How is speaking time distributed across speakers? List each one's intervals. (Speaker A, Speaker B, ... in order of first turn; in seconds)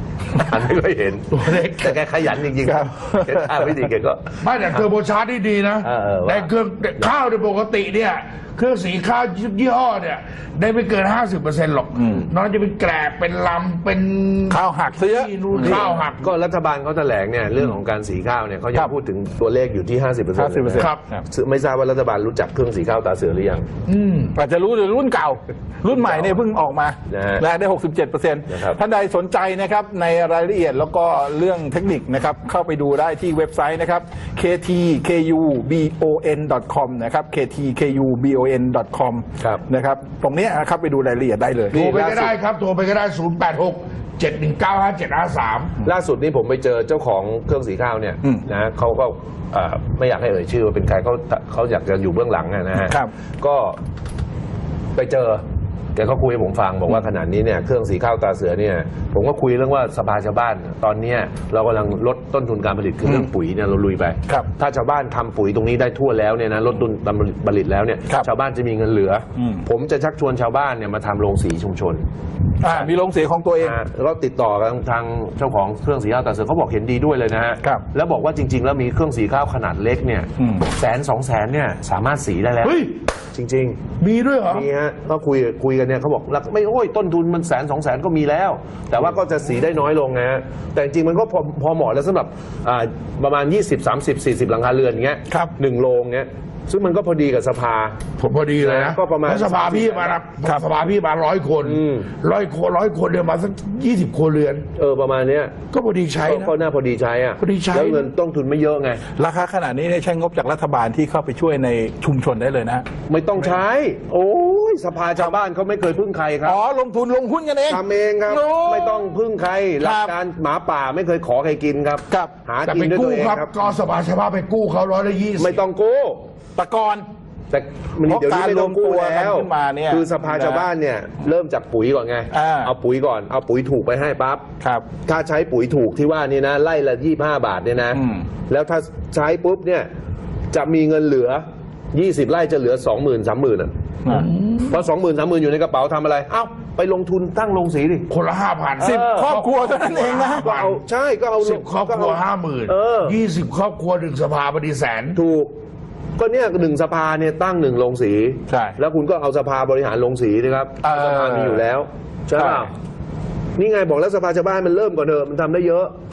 Speaker A: 0.3-4.8, 5.8-7.1, 15.6-23.6, 25.9-26.4, 27.1-27.5, 28.5-28.8, 41.7-42.4, 45.8-53.8, 55.0-55.4, 56.0-72.0, 73.6-83.8, 84.5-98.0, 98.6-100.2, 101.6-102.1, 104.8-105.5, 106.2-109.0, 113.1-116.6, 117.7-123.5, 125.4-126.2, 127.5-134.4, 135.1-139.9, 140.5-143.7, 144.7-148.1, 148.8-149.3, 150.3-153.2, 155.2-155.5, 156.2-162.7, 163.6-165.9
Speaker B: 1.3-1.9, 4.4-16.3, 23.9-24.4, 41.7-45.8, 82.6-82.9, 84.0-84.7, 98.2-104.7, 105.7-106.5, 107.4-108.1, 122.7-125.6, 144.1-144.7, 148.1-150.8, 151.4-155.2
Speaker C: 2.6-3.7, 12.0-12.3, 14.5-15.9, 20.4-21.2, 24.4-41.8, 69.4-69.6, 72.6-73.8, 80.4-80.7, 109.2-112.8, 116.5-119.1, 119.8-120.1, 126.6-127.1, 128.1-130.7, 132.3-132.7, 134.6-134.8, 137.9-138.2, 148.8-150.5, 158.5-158.8, 160.8-161.6, 162.4-162.7